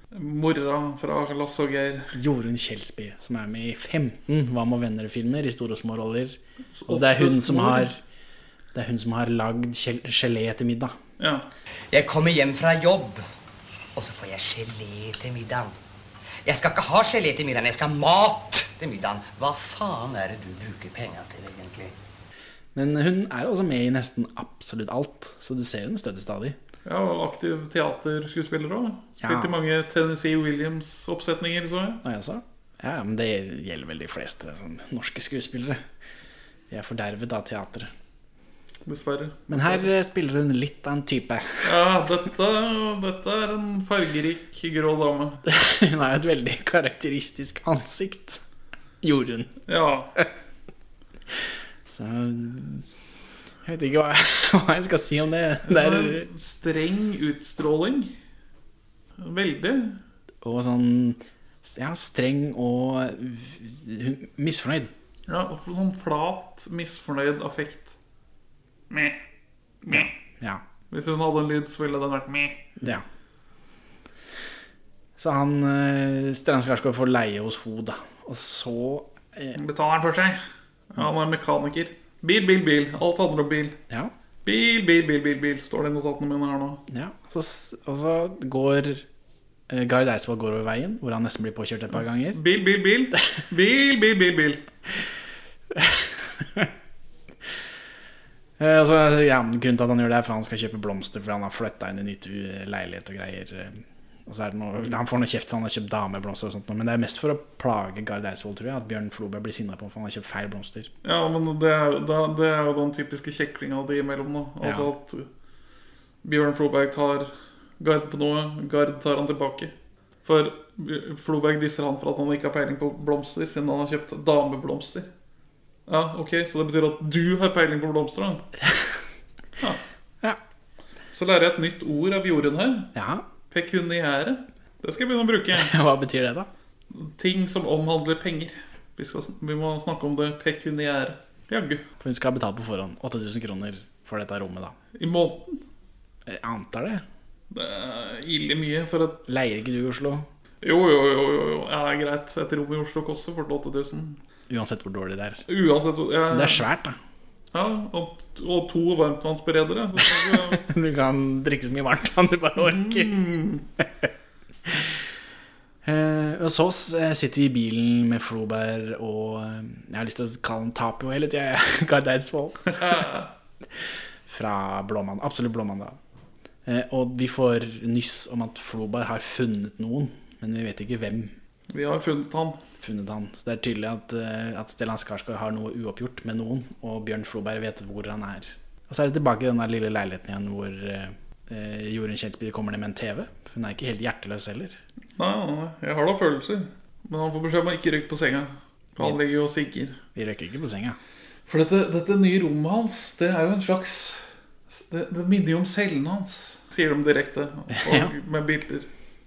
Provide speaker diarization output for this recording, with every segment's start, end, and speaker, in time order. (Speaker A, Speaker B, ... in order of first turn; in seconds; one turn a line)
Speaker A: 0.1-2.1
Speaker B: 2.1-8.0
Speaker A: 6.7-7.9
Speaker B: 8.7-11.0
Speaker A: 11.2-11.5
Speaker C: 11.9-13.2
Speaker C: 13.9-15.8
Speaker C: 16.4-21.9
Speaker B: 22.7-26.6
Speaker A: 26.8-32.0
Speaker B: 29.2-29.5
Speaker B: 32.0-35.8
Speaker B: 36.7-37.9
Speaker A: 38.8-39.9
Speaker B: 39.5-41.8
Speaker A: 41.6-45.4
Speaker B: 45.4-48.4
Speaker B: 49.0-49.6
Speaker A: 49.7-50.1
Speaker B: 51.9-52.9
Speaker B: 53.6-56.3
Speaker A: 55.7-58.1
Speaker A: 59.2-60.0
Speaker B: 60.4-64.9
Speaker A: 65.3-68.0
Speaker A: 68.9-69.2
Speaker A: 69.8-70.1
Speaker B: 69.9-70.6
Speaker A: 70.9-72.6
Speaker B: 72.8-73.0
Speaker B: 75.2-79.6
Speaker A: 79.5-80.4
Speaker A: 80.9-83.8
Speaker A: 84.4-86.8
Speaker B: 86.9-89.0
Speaker B: 89.7-92.4
Speaker A: 91.9-94.6
Speaker B: 95.7-96.7
Speaker B: 98.6-110.9
Speaker A: 111.0-115.3
Speaker B: 114.6-114.9
Speaker A: 116.2-125.1
Speaker A: 125.9-128.5
Speaker A: 131.1-132.9
Speaker B: 132.9-133.2
Speaker A: 133.5-135.7
Speaker B: 135.5-136.5
Speaker A: 136.9-141.8
Speaker B: 142.0-144.8
Speaker A: 144.9-145.6
Speaker B: 146.2-147.0
Speaker A: 147.5-149.2
Speaker B: 149.3-150.3
Speaker A: 150.6-154.2
Speaker B: 154.5-155.4
Speaker A: 155.5-156.6
Speaker B: 156.3-157.0
Speaker A: 157.5-160.6
Speaker B: 160.0-163.2
Speaker A: 162.6-163.6
Speaker B: 163.8-164.1
Speaker B: 165.8-173.1
Speaker A: 172.7-173.3
Speaker B: 174.3-176.0
Speaker B: 176.7-181.3
Speaker A: 181.7-182.6
Speaker B: 182.8-194.8
Speaker A: 195.2-200.0
Speaker B: 200.1-201.0
Speaker A: 201.5-208.9
Speaker B: 207.7-208.1